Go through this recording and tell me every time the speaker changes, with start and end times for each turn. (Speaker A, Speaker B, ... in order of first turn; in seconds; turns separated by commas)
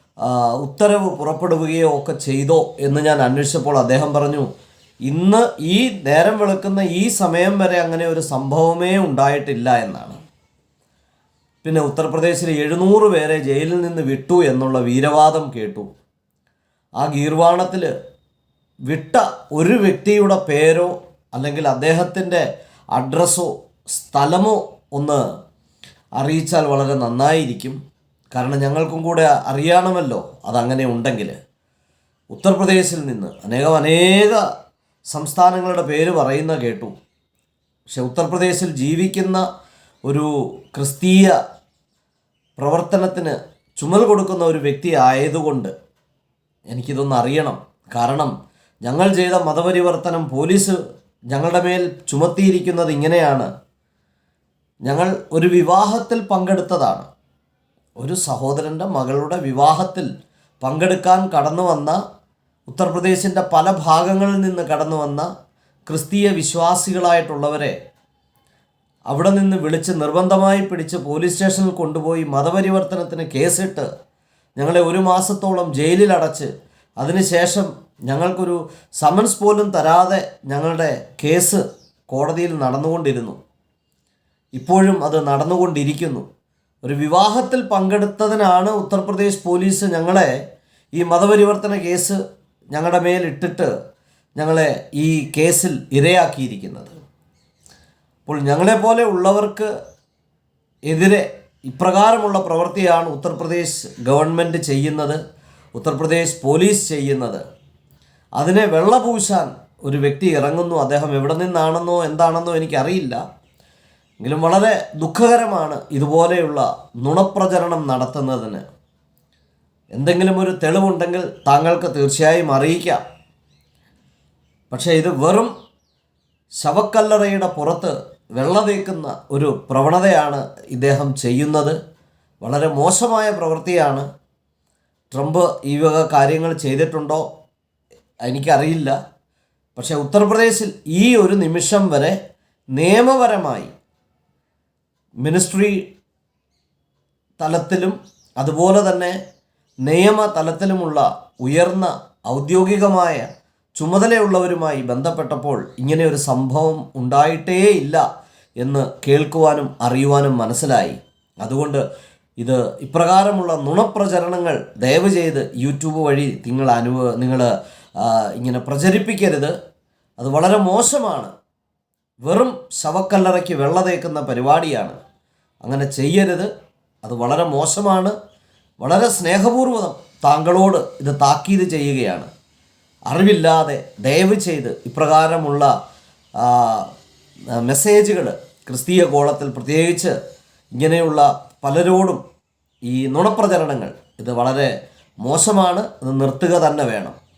Speaker A: 0.2-4.5, Speaker A: 5.1-10.2, Speaker A: 11.6-15.9, Speaker A: 17.0-17.9, Speaker A: 18.9-25.2, Speaker A: 26.2-27.8, Speaker A: 28.3-31.4, Speaker A: 32.3-34.4, Speaker A: 35.1-36.9, Speaker A: 37.9-39.5, Speaker A: 40.1-41.4, Speaker A: 42.6-45.7, Speaker A: 46.7-48.3, Speaker A: 48.9-50.8, Speaker A: 51.3-53.5, Speaker A: 54.9-57.1, Speaker A: 58.0-60.1, Speaker A: 60.6-62.0, Speaker A: 62.7-65.3, Speaker A: 65.9-67.8, Speaker A: 69.1-73.9, Speaker A: 74.6-83.4, Speaker A: 84.5-86.3, Speaker A: 86.8-90.4, Speaker A: 91.0-92.2, Speaker A: 92.7-93.7, Speaker A: 94.4-97.0, Speaker A: 98.3-99.7, Speaker A: 100.9-105.2, Speaker A: 105.8-107.4, Speaker A: 108.4-113.2, Speaker A: 114.2-118.6, Speaker A: 120.0-123.0, Speaker A: 124.7-125.5, Speaker A: 126.6-131.8, Speaker A: 132.4-134.1, Speaker A: 135.1-137.2, Speaker A: 138.2-139.0, Speaker A: 139.8-142.2, Speaker A: 142.7-143.7, Speaker A: 145.2-145.8, Speaker A: 147.4-149.2, Speaker A: 149.8-158.1, Speaker A: 158.6-161.8, Speaker A: 162.4-169.5, Speaker A: 170.2-171.3, Speaker A: 172.2-175.0, Speaker A: 175.6-176.5, Speaker A: 177.0-178.2, Speaker A: 178.8-182.3, Speaker A: 183.1-185.7, Speaker A: 186.4-186.9, Speaker A: 187.5-190.2, Speaker A: 190.8-192.2, Speaker A: 192.9-194.7, Speaker A: 195.2-197.2